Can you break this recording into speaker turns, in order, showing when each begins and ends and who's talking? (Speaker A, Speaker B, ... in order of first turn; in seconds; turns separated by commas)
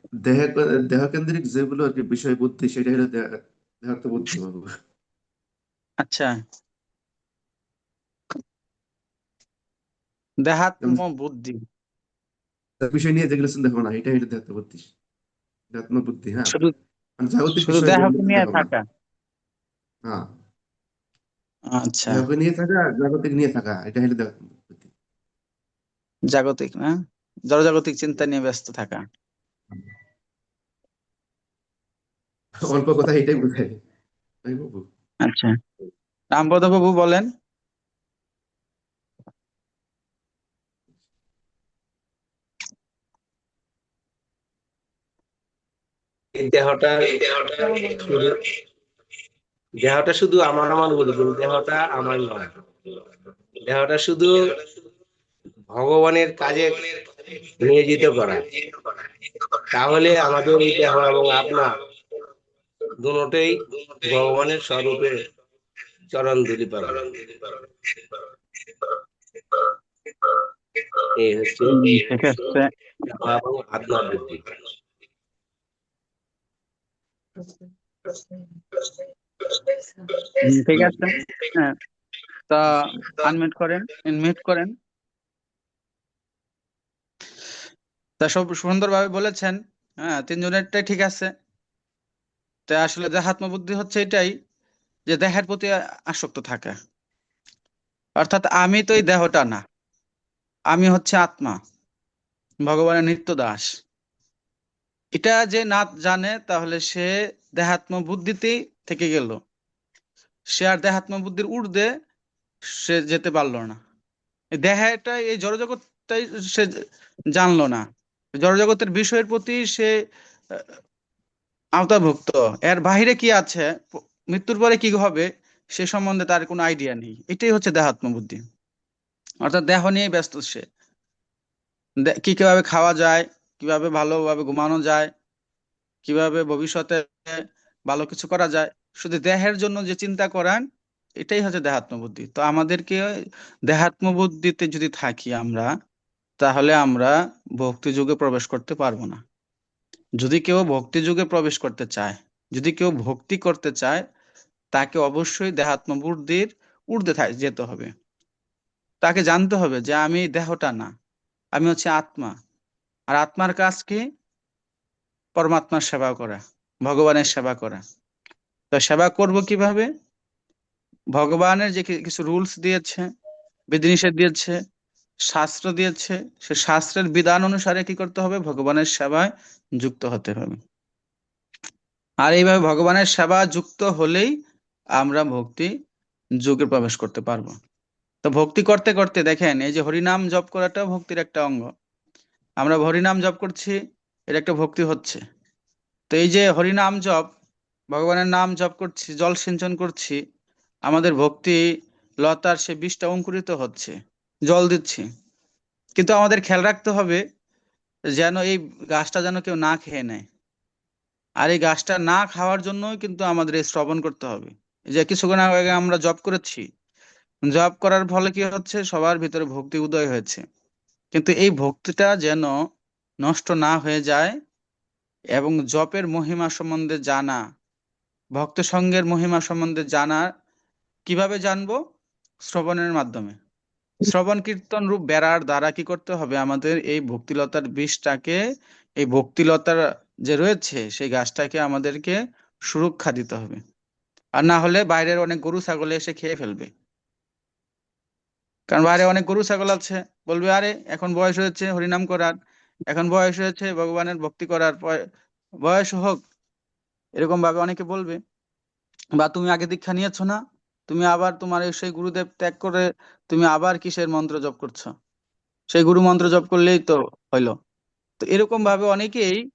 Speaker A: 0.2-4.7, Speaker B: 6.0-6.4, Speaker B: 10.4-11.6, Speaker A: 12.8-14.9, Speaker A: 15.7-16.6, Speaker A: 17.2-18.7, Speaker B: 17.6-18.8, Speaker A: 20.1-20.4, Speaker B: 21.7-22.2, Speaker A: 22.1-24.9, Speaker B: 26.3-26.9, Speaker B: 27.5-29.0, Speaker A: 32.7-33.8, Speaker A: 34.5-34.9, Speaker B: 35.3-35.5, Speaker B: 36.3-37.3, Speaker C: 46.4-47.3, Speaker C: 47.8-48.3, Speaker C: 49.8-52.5, Speaker C: 53.7-54.3, Speaker C: 55.7-56.8, Speaker C: 57.6-58.4, Speaker C: 59.8-61.7, Speaker C: 63.0-65.2, Speaker C: 66.1-67.0, Speaker C: 71.3-72.0, Speaker B: 71.7-72.7, Speaker C: 73.2-74.3, Speaker B: 80.4-81.7, Speaker B: 82.5-84.7, Speaker B: 88.2-91.3, Speaker B: 92.7-94.3, Speaker B: 95.1-96.8, Speaker B: 98.2-99.6, Speaker B: 100.7-101.6, Speaker B: 102.7-103.7, Speaker B: 105.2-109.4, Speaker B: 110.6-111.9, Speaker B: 112.8-113.8, Speaker B: 114.6-116.7, Speaker B: 117.3-117.8, Speaker B: 118.4-119.9, Speaker B: 121.8-123.7, Speaker B: 124.3-128.4, Speaker B: 129.4-130.7, Speaker B: 132.1-135.1, Speaker B: 136.1-137.3, Speaker B: 137.9-140.6, Speaker B: 141.2-143.1, Speaker B: 143.7-145.7, Speaker B: 146.4-149.2, Speaker B: 150.2-154.0, Speaker B: 154.7-157.9, Speaker B: 159.0-160.9, Speaker B: 161.6-162.3, Speaker B: 163.1-164.0, Speaker B: 165.4-167.8, Speaker B: 168.7-169.9, Speaker B: 171.2-173.1, Speaker B: 173.7-174.6, Speaker B: 175.3-180.6, Speaker B: 182.2-184.3, Speaker B: 185.0-185.7, Speaker B: 186.4-187.6, Speaker B: 188.2-191.7, Speaker B: 192.6-193.8, Speaker B: 194.3-195.2, Speaker B: 196.1-197.3, Speaker B: 197.9-200.2, Speaker B: 200.9-201.6, Speaker B: 202.2-203.9, Speaker B: 204.5-205.1, Speaker B: 206.0-207.2, Speaker B: 208.2-210.3, Speaker B: 211.4-216.7, Speaker B: 217.5-220.4, Speaker B: 221.1-222.6, Speaker B: 223.2-224.3, Speaker B: 225.4-227.4, Speaker B: 228.4-230.3, Speaker B: 231.1-231.8, Speaker B: 232.5-233.4, Speaker B: 234.0-238.4, Speaker B: 239.0-242.2, Speaker B: 242.7-243.6, Speaker B: 244.4-246.7, Speaker B: 248.7-252.3, Speaker B: 252.9-255.0, Speaker B: 255.6-256.2, Speaker B: 257.2-258.2, Speaker B: 259.2-264.9, Speaker B: 265.7-267.6, Speaker B: 268.2-269.4